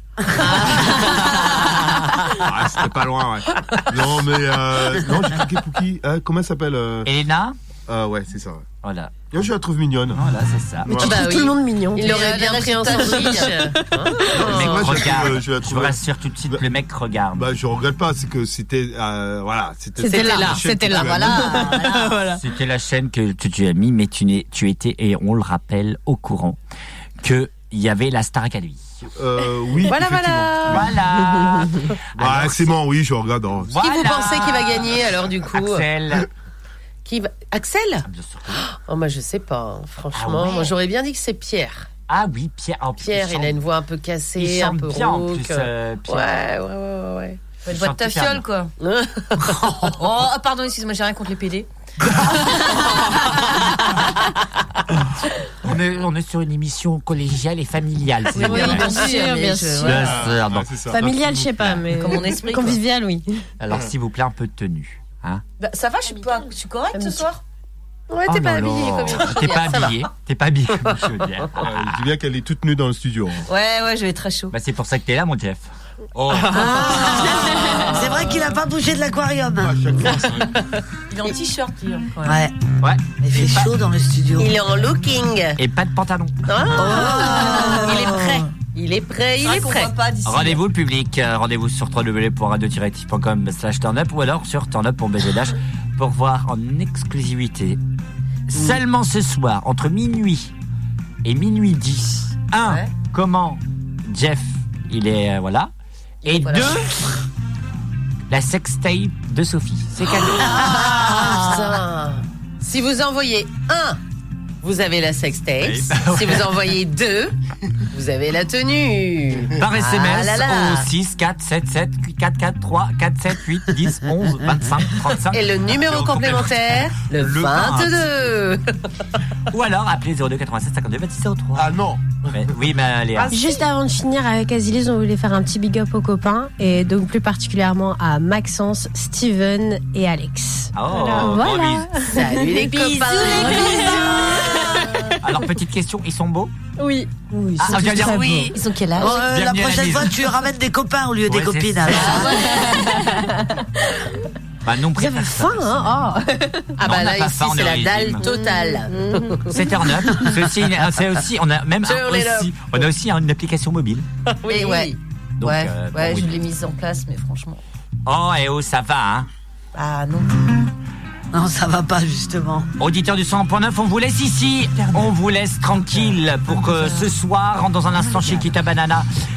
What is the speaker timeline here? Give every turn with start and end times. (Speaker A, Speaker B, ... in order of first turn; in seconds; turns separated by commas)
Speaker A: 0.5-1.3, Speaker B: 0.8-1.3, Speaker C: 2.3-7.1, Speaker D: 7.0-7.6, Speaker C: 7.9-8.6, Speaker D: 8.8-9.3, Speaker C: 9.3-10.2, Speaker D: 10.1-11.1, Speaker C: 10.8-11.2, Speaker E: 10.9-14.7, Speaker B: 11.0-15.3, Speaker A: 12.1-13.7, Speaker C: 14.2-16.7, Speaker D: 14.4-17.6, Speaker C: 17.3-21.6, Speaker E: 20.0-22.4, Speaker B: 20.0-20.6, Speaker A: 20.1-22.2, Speaker D: 22.4-26.6, Speaker D: 27.2-28.9, Speaker C: 29.1-30.9, Speaker B: 29.8-30.8, Speaker E: 29.8-30.8, Speaker D: 30.7-32.8, Speaker E: 31.4-31.7, Speaker C: 32.2-33.7, Speaker D: 33.6-36.3, Speaker B: 33.7-35.9, Speaker B: 37.0-41.9, Speaker D: 38.0-38.7, Speaker D: 40.1-40.7, Speaker D: 42.1-43.6, Speaker B: 43.0-47.4, Speaker D: 44.4-46.5, Speaker A: 47.6-48.7, Speaker D: 47.7-48.5, Speaker B: 48.8-49.7, Speaker A: 49.8-51.7, Speaker A: 52.4-52.9, Speaker D: 55.6-58.9, Speaker A: 58.3-60.3, Speaker E: 58.3-60.2, Speaker D: 59.8-60.7, Speaker C: 59.9-61.9, Speaker E: 60.9-63.4, Speaker A: 61.9-62.8, Speaker D: 63.6-65.4, Speaker A: 65.6-67.4, Speaker E: 66.1-66.4, Speaker E: 66.9-67.3, Speaker B: 68.1-70.0, Speaker D: 68.3-71.9, Speaker C: 71.6-73.4, Speaker A: 73.5-74.5, Speaker D: 74.5-77.1, Speaker F: 76.5-80.1, Speaker C: 79.6-80.5, Speaker A: 81.1-82.4, Speaker F: 82.2-82.5, Speaker D: 82.8-83.7, Speaker F: 83.2-84.7, Speaker B: 84.4-85.6, Speaker D: 85.6-86.3, Speaker B: 86.5-89.9, Speaker F: 86.7-88.5, Speaker A: 87.4-88.2, Speaker A: 89.4-90.6, Speaker D: 90.2-97.8, Speaker D: 98.5-100.5, Speaker D: 101.2-105.7, Speaker B: 102.6-102.9, Speaker B: 106.2-106.7, Speaker D: 106.2-107.1, Speaker D: 108.3-111.5, Speaker B: 110.2-114.0, Speaker B: 114.6-117.3, Speaker D: 115.6-116.5, Speaker B: 117.9-120.9, Speaker D: 119.5-128.4, Speaker B: 125.3-128.7, Speaker D: 129.5-131.7, Speaker C: 131.6-132.4, Speaker D: 132.3-133.4, Speaker E: 133.3-145.1, Speaker D: 140.7-141.9, Speaker B: 142.1-144.7, Speaker D: 145.2-146.5, Speaker E: 146.8-148.6, Speaker D: 147.6-150.2, Speaker A: 147.8-149.2, Speaker F: 148.9-153.0, Speaker D: 151.2-152.3, Speaker E: 152.4-154.1, Speaker D: 154.6-155.9, Speaker E: 154.9-156.7, Speaker B: 156.8-159.5, Speaker D: 156.8-158.2, Speaker E: 158.2-159.6, Speaker D: 159.5-164.1, Speaker B: 161.8-162.7, Speaker B: 164.4-164.9, Speaker A: 164.4-167.6, Speaker D: 165.4-166.4, Speaker D: 168.1-169.3, Speaker A: 169.7-170.4, Speaker F: 171.3-172.7, Speaker D: 172.8-179.1, Speaker A: 176.7-177.1